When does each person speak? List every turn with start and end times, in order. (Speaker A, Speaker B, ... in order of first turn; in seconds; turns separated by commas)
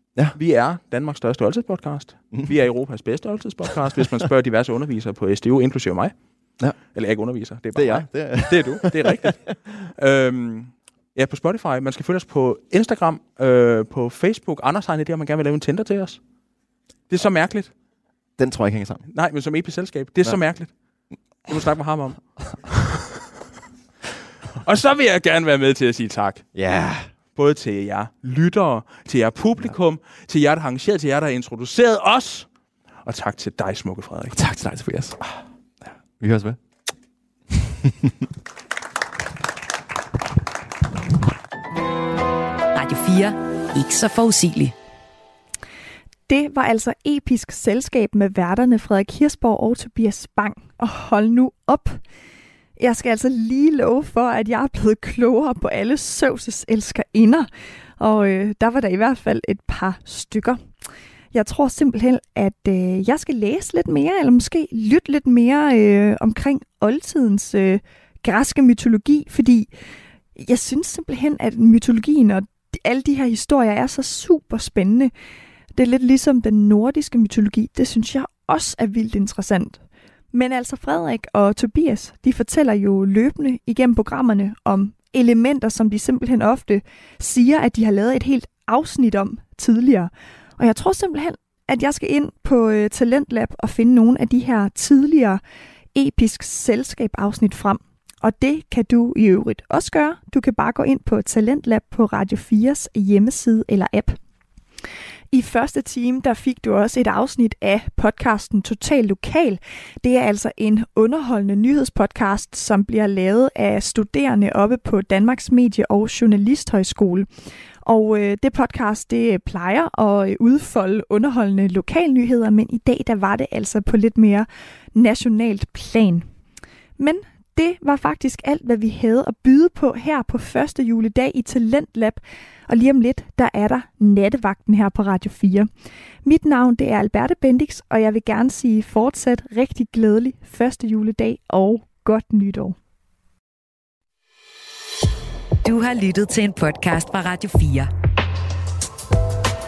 Speaker A: 0.3-6.1, Speaker A: 6.9-9.4, Speaker B: 7.7-9.8, Speaker A: 9.9-16.2, Speaker A: 17.1-17.7, Speaker B: 18.4-19.1, Speaker A: 19.1-20.7, Speaker A: 21.5-23.2, Speaker A: 24.6-26.4, Speaker B: 26.6-27.1, Speaker A: 27.4-32.5, Speaker A: 33.0-34.4, Speaker B: 34.3-35.2, Speaker B: 36.1-36.6, Speaker B: 37.5-38.3, Speaker C: 42.7-44.7, Speaker D: 46.3-52.0, Speaker D: 52.8-57.5, Speaker D: 58.0-60.6, Speaker D: 61.3-69.7, Speaker D: 70.3-75.1, Speaker D: 75.7-79.8, Speaker D: 80.3-95.4, Speaker D: 96.0-104.2, Speaker D: 105.3-117.3, Speaker D: 117.8-126.3, Speaker D: 127.0-135.7, Speaker D: 136.2-142.8, Speaker C: 145.6-147.9